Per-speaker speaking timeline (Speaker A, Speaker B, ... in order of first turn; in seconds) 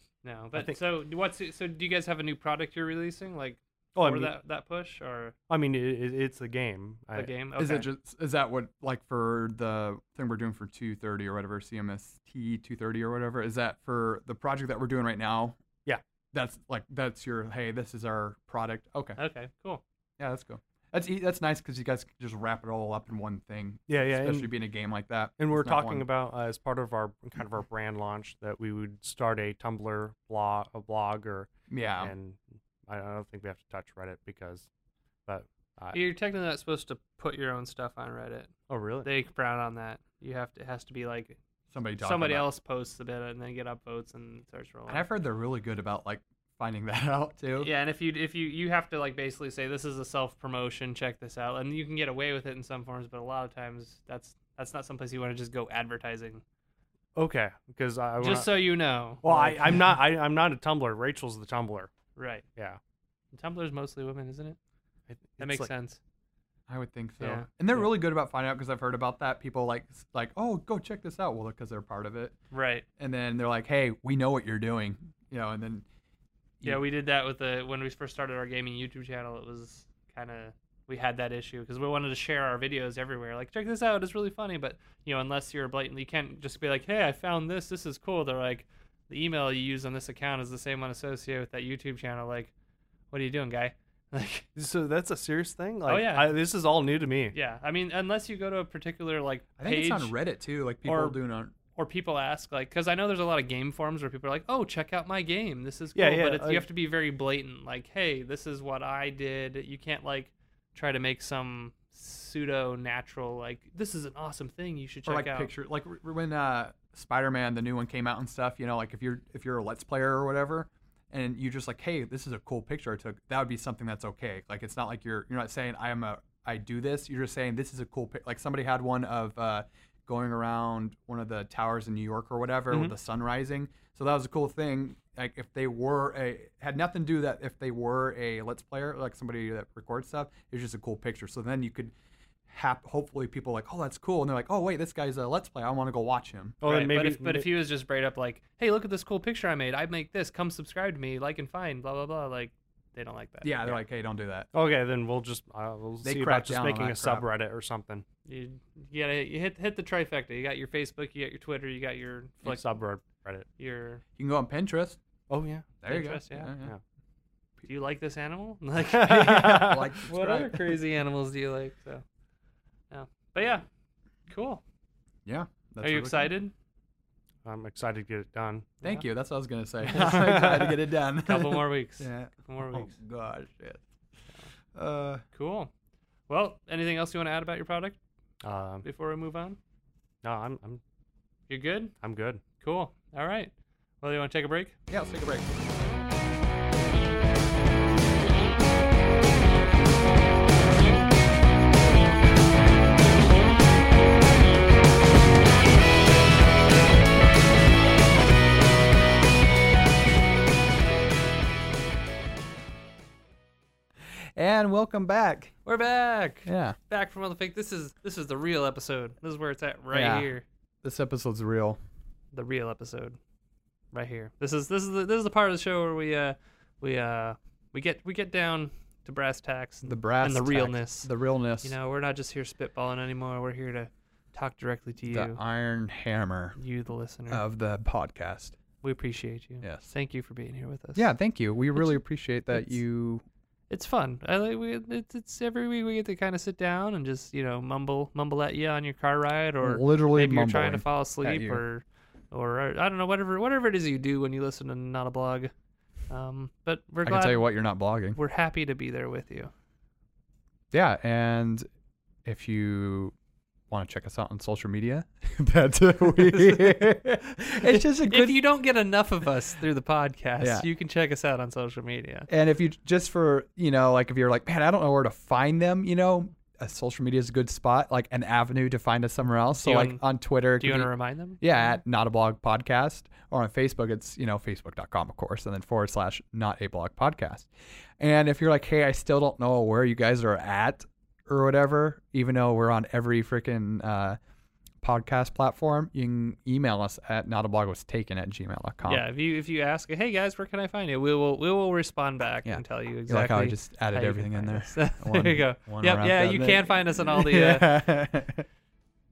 Speaker A: 0.2-5.3, 7.2-7.9, 19.2-19.8, 35.9-38.5, 39.0-41.4, 42.0-45.1, 47.6-56.4, 58.2-59.8, 62.2-62.5, 63.3-64.6, 65.4-66.0, 67.2-67.9, 72.5-72.8, 76.6-92.5, 93.1-94.5, 95.9-96.3, 97.3-100.1, 100.8-101.2, 101.8-115.5, 146.6-153.8, 158.3-162.6, 163.6-164.0, 165.9-166.5, 167.7-172.0, 172.9-173.7, 174.3-174.6, 175.8-176.5, 179.9-180.7, 181.2-182.9, 185.3-185.7, 186.3-188.0, 188.8-189.6, 191.5-191.9, 192.6-194.8, 215.7-220.4, 222.3-223.2, 223.9-231.1, 231.6-235.4, 236.6-237.4, 238.8-241.1, 243.7-255.5, 256.1-257.5, 258.1-259.5, 267.6-272.3, 279.6-280.0, 280.6-281.4, 298.9-307.8
Speaker B: 4.0-4.4, 5.5-7.3, 23.9-24.5, 25.4-34.7, 35.3-36.0, 38.7-39.1, 57.2-58.6, 59.2-61.9, 65.1-65.7, 94.6-97.3, 106.0-106.7, 132.7-133.0, 146.6-147.5, 154.5-158.1, 162.4-163.5, 165.3-165.8, 168.9-169.8, 177.4-178.8, 180.1-180.6, 188.4-188.9, 190.2-190.8, 192.0-192.4
Speaker C: 7.6-15.6, 16.3-19.2, 20.2-26.1, 31.7-32.1, 41.7-42.5, 44.9-47.7, 66.7-72.4, 73.0-75.8, 99.6-101.5, 115.1-141.9, 142.5-146.6, 153.4-154.5, 156.0-157.2, 164.2-165.0, 165.8-166.7, 169.5-170.8, 175.2-176.3, 178.8-183.8, 184.7-185.2, 194.9-195.8, 214.3-215.5, 216.5-216.8, 219.9-220.3, 220.8-221.8, 229.8-231.8, 235.1-236.6, 237.3-238.6, 239.6-239.9, 241.0-243.2, 249.6-251.6, 257.1-258.2, 260.7-261.7, 262.2-263.1, 263.7-268.4, 270.4-270.7, 272.3-294.2, 294.8-299.0, 302.4-308.5